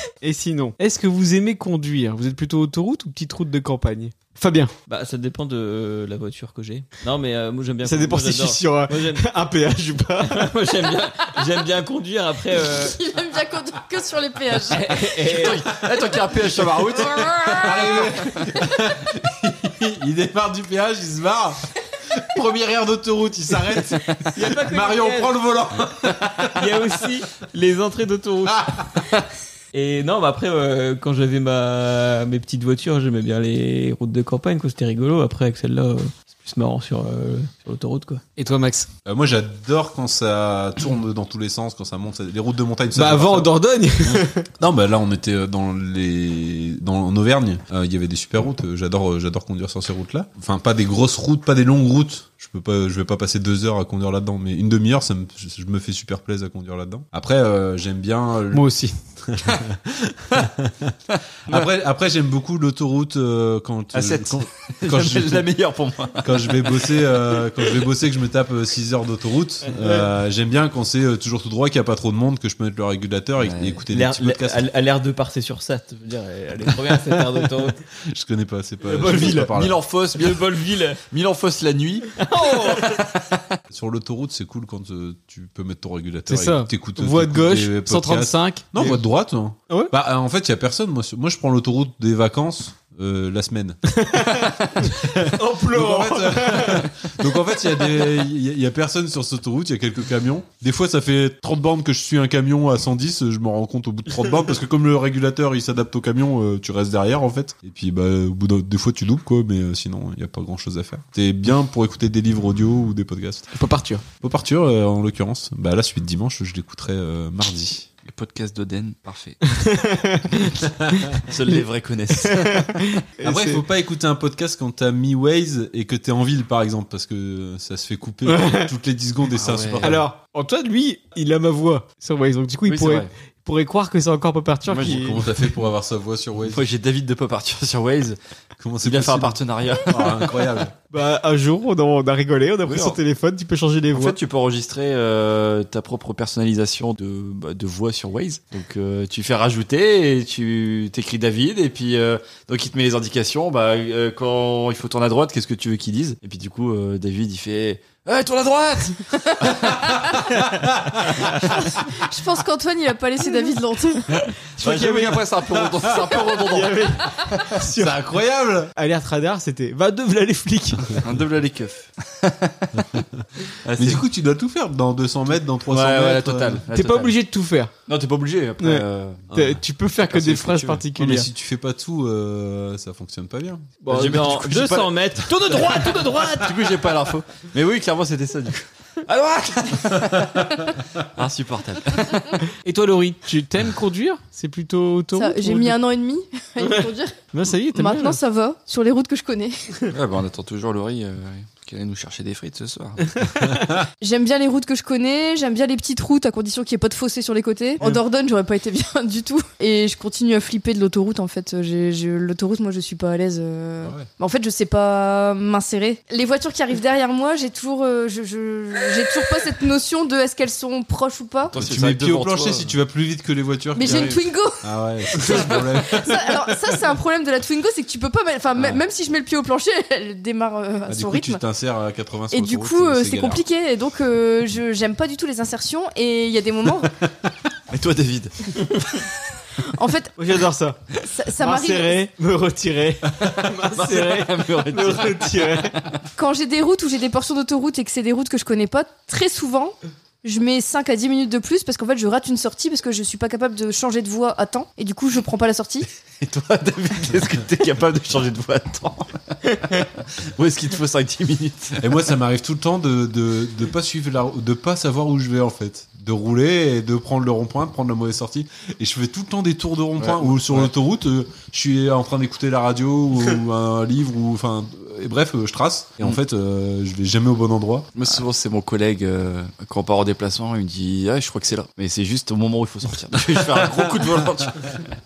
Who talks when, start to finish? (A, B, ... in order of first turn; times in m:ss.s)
0:00.2-0:04.7 A
0:04.9-0:09.3 B
0:07.8-0:10.5 A
0:10.2-0:13.0 B
0:12.7-0:15.1 C
0:14.7-0:15.7 B
0:15.2-0:18.4 D
0:17.2-0:17.6 C
0:17.6-0:26.8 E
0:24.4-0:25.3 B
0:26.5-0:28.8 B
0:28.5-0:28.9 E
0:29.7-0:38.2 B
0:38.4-0:38.9 A
0:39.1-0:43.5 E
0:43.0-0:44.5 A
0:44.0-0:58.7 E
0:58.5-0:59.0 A
0:59.3-1:01.0 E
1:01.2-1:01.6 D
1:01.5-1:05.5 E
1:03.9-1:07.0 D
1:06.2-1:14.6 E
1:13.4-1:13.8 D
1:13.9-1:17.8 B
1:18.1-1:19.8 E
1:18.8-1:19.5 A
1:19.4-1:23.4 D
1:20.2-1:21.0 B
1:22.2-1:23.0 B
1:23.7-1:34.0 E
1:26.3-1:29.0 A
1:34.0-1:36.9 A
1:34.8-1:53.5 E
1:53.5-1:54.0 A
1:54.2-1:57.9 E
1:58.0-1:59.4 D
1:59.5-2:00.6 A
2:01.3-2:02.9 D
2:01.5-2:03.6 A
2:03.2-2:10.0 E
2:08.3-2:08.7 A
2:09.4-2:10.0 D
2:09.8-2:15.2 A
2:12.7-2:13.1 D
2:14.7-2:15.3 D
2:14.8-2:16.6 E
2:16.5-2:18.2 D
2:18.6-2:20.7 E
2:18.8-2:20.4 D
2:20.9-2:24.2 A
2:22.6-2:23.0 D
2:23.9-2:40.0 D
2:40.2-2:41.2 E
2:41.6-2:44.1 C
2:44.6-2:45.2 A
2:44.6-2:46.9 D
2:45.6-2:46.2 E
2:46.3-2:48.0 A
2:47.6-2:48.7 E
2:48.8-2:51.0 A
2:51.0-2:52.8 D
2:53.6-2:54.0 D
2:53.8-2:56.6 E
2:55.7-2:57.2 D
2:56.7-2:57.7 A
2:57.9-2:59.5 D
2:58.6-3:01.3 A
3:00.1-3:00.8 D
3:01.0-3:03.7 E
3:03.9-3:04.2 A
3:03.9-3:12.4 D
3:03.9-3:06.6 B
3:12.6-3:15.8 A
3:15.2-3:17.2 C
3:16.6-3:18.2 A
3:17.7-3:19.6 C
3:19.9-3:23.2 D
3:24.0-3:41.6 C
3:33.8-3:34.1 E
3:41.5-3:42.7 D
3:41.5-3:46.4 E
3:43.8-3:51.4 C
3:43.9-3:44.1 D
3:48.6-3:48.8 D
3:50.9-3:53.4 E
3:52.3-3:56.9 C
3:57.7-3:58.7 D
3:59.7-4:00.1 C
4:00.2-4:00.8 A
4:01.0-4:02.0 C
4:01.4-4:05.8 A
4:03.7-4:06.0 D
4:06.2-4:15.9 C
4:16.2-4:21.9 D
4:21.8-4:37.9 E
4:30.0-4:30.7 D
4:38.0-4:44.9 D
4:43.6-4:43.8 E